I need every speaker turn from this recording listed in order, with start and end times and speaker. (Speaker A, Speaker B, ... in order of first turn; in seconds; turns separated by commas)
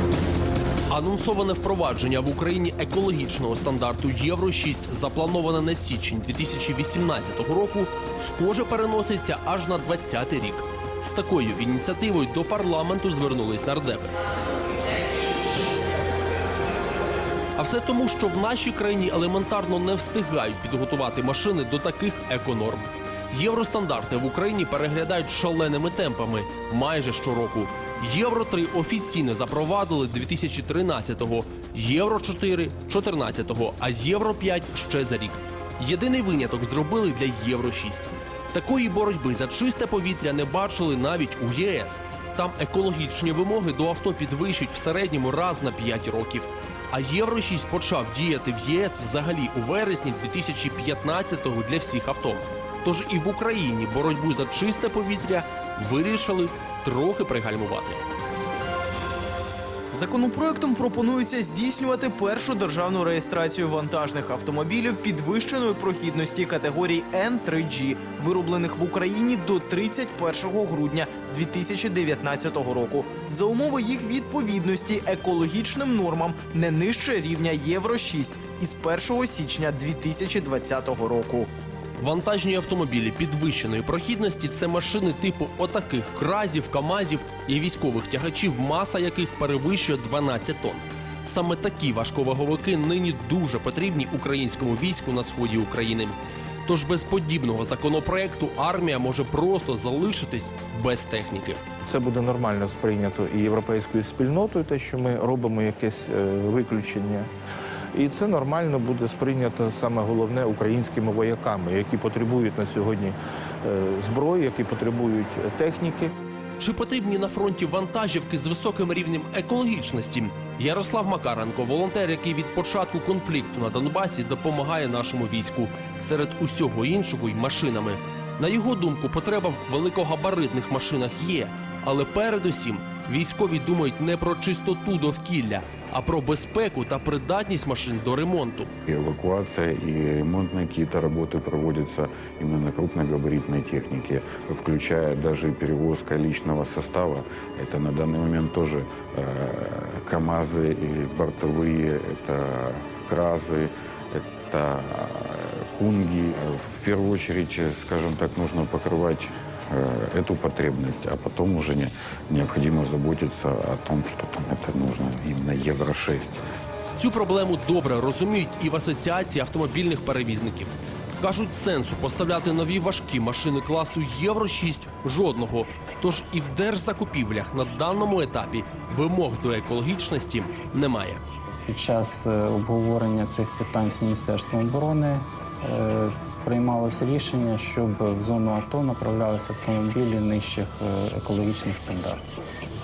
Speaker A: 0.9-14.2, Speaker A: 17.6-58.0, Speaker B: 59.9-81.5, Speaker A: 82.0-101.6, Speaker C: 101.8-107.3, Speaker C: 107.9-116.1, Speaker A: 116.6-138.7, Speaker D: 138.8-166.4, Speaker A: 166.9-181.2, Speaker E: 181.7-192.3